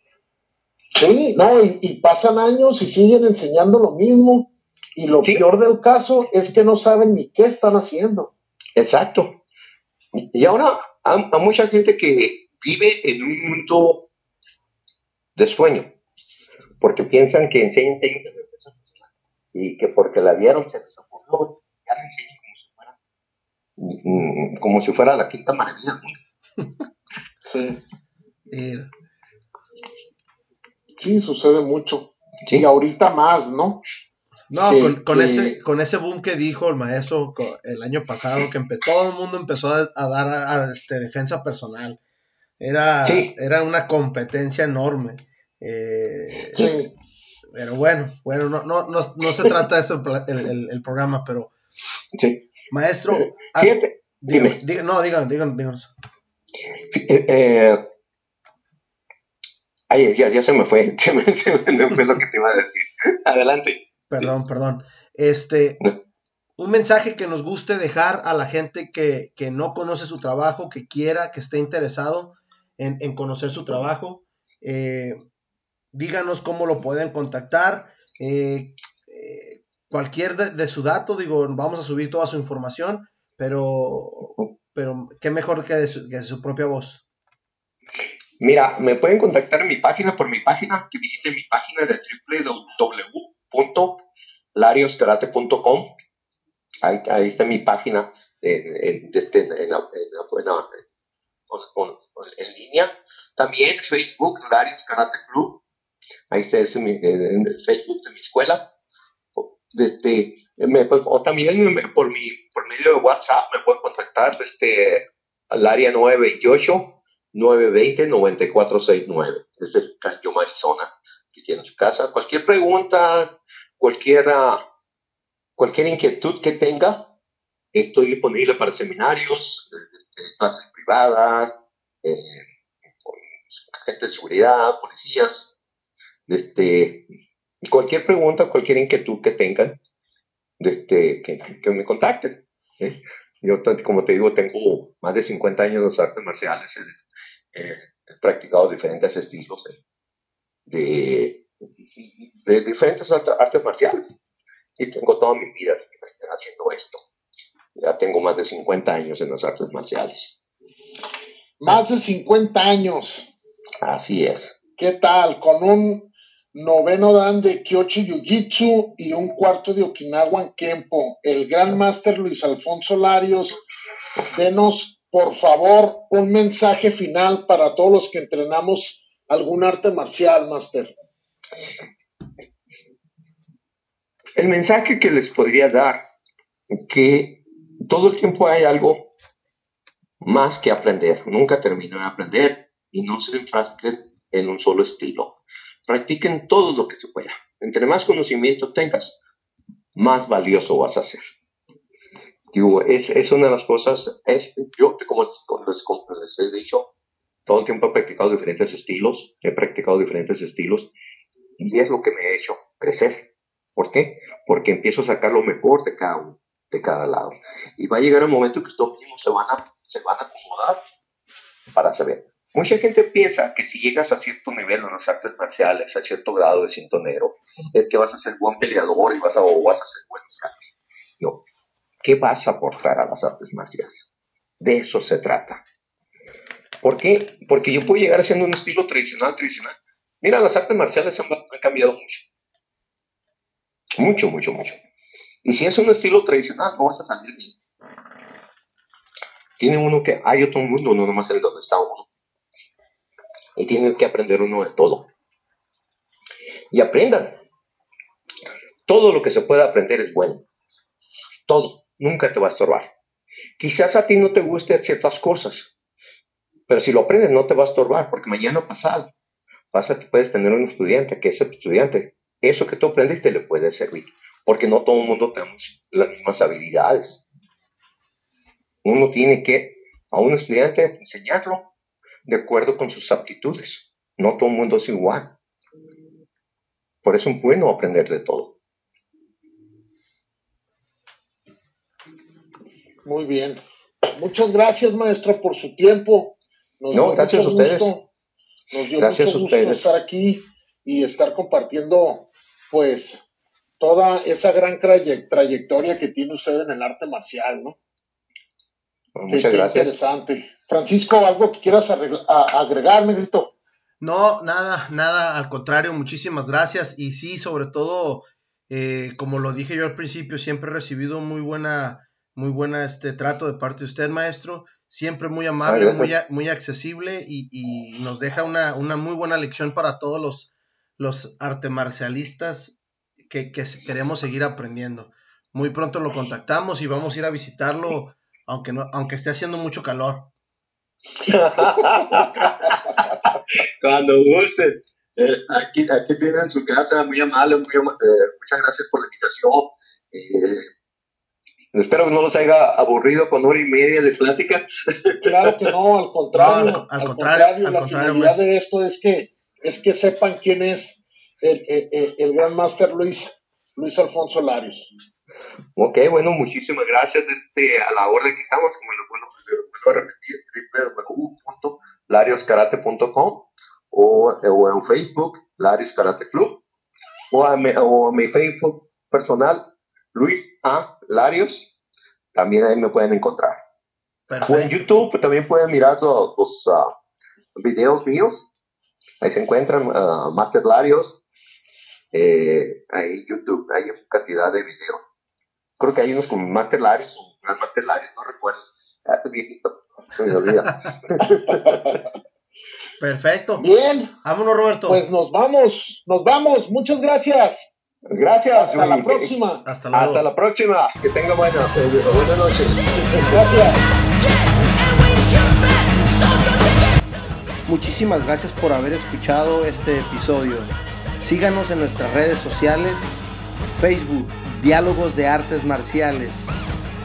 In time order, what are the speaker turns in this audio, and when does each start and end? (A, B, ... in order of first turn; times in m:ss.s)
0:01.0-0:08.3 A
0:08.8-0:09.4 B
0:10.3-0:14.0 B
0:15.4-0:15.9 B
0:16.8-0:23.0 B
0:23.8-0:26.2 B
0:27.4-0:27.8 A
0:28.5-0:28.9 C
0:31.0-0:33.8 A
0:34.5-0:42.0 C
0:34.6-0:35.6 A
0:42.6-0:46.7 C
0:43.0-0:43.3 B
0:46.6-0:46.9 A
0:47.5-0:51.5 C
0:52.2-0:52.4 B
0:52.7-0:55.9 C
0:53.2-0:54.6 B
0:56.8-0:57.8 B
0:59.9-1:04.3 B
1:04.1-1:05.8 C
1:06.6-1:15.2 C
1:15.9-1:27.0 C
1:28.4-1:34.0 B
1:34.6-1:35.9 B
1:36.8-1:40.8 B
1:41.5-1:45.6 B
1:46.3-1:48.6 B
1:49.4-2:04.6 B
2:05.6-2:07.1 B
2:07.7-2:12.4 B
2:13.0-2:15.5 B
2:16.3-2:17.0 B
2:17.6-2:19.8 B
2:20.6-2:27.0 B
2:27.5-2:29.8 B
2:30.7-2:31.4 B
2:32.0-2:34.0 B
2:34.8-2:37.0 B
2:37.8-2:40.4 B
2:41.6-2:43.3 A
2:43.8-2:44.6 B
2:44.8-2:53.6 A
2:54.3-3:00.9 A
3:04.4-3:06.0 B
3:06.7-3:09.1 B
3:10.2-3:15.3 B
3:15.9-3:19.2 B
3:20.0-3:21.2 B
3:22.5-3:26.9 B
3:27.5-3:30.9 B
3:31.6-3:33.2 B
3:33.8-3:40.8 B
3:41.7-3:51.4 B
3:52.0-3:54.0 B
3:54.6-3:55.6 B
3:56.8-4:02.3 B
4:04.0-4:04.8 B
4:05.4-4:07.6 B
4:09.6-4:12.1 B
4:13.6-4:15.1 B
4:16.7-4:17.4 B
4:18.9-4:20.4 B
4:21.5-4:22.9 B
4:23.6-4:25.7 B
4:26.7-4:29.1 B
4:29.7-4:37.2 B
4:38.8-4:41.7 B
4:42.3-4:45.3 B
4:47.0-4:48.5 B
4:53.0-4:53.6 A
4:54.1-4:58.1 A
4:56.9-4:57.9 B
4:58.7-5:03.2 A
4:59.0-4:59.9 B
5:03.8-5:07.8 A
5:09.2-5:09.9 B
5:09.3-5:13.6 A
5:14.0-5:32.8 C
5:25.6-5:26.1 B
5:33.3-5:40.3 C
5:41.2-5:50.7 B
5:51.7-5:55.7 B
5:55.2-6:04.9 A
5:56.3-5:58.4 C
6:05.8-6:16.6 B
6:17.3-6:21.7 B
6:22.3-6:23.6 B
6:24.3-6:24.8 C
6:24.4-6:26.9 B
6:27.6-6:28.5 B
6:29.2-6:31.2 B
6:32.1-6:35.0 B
6:35.8-6:42.0 B
6:41.5-6:42.0 A
6:43.0-6:43.7 C
6:43.6-6:44.1 A
6:44.2-6:45.0 C
6:44.9-6:47.7 A
6:48.1-6:49.3 B
6:48.6-6:49.7 A
6:49.6-6:50.3 C
6:49.9-6:53.5 B
6:53.2-6:53.8 A
6:57.7-7:06.6 C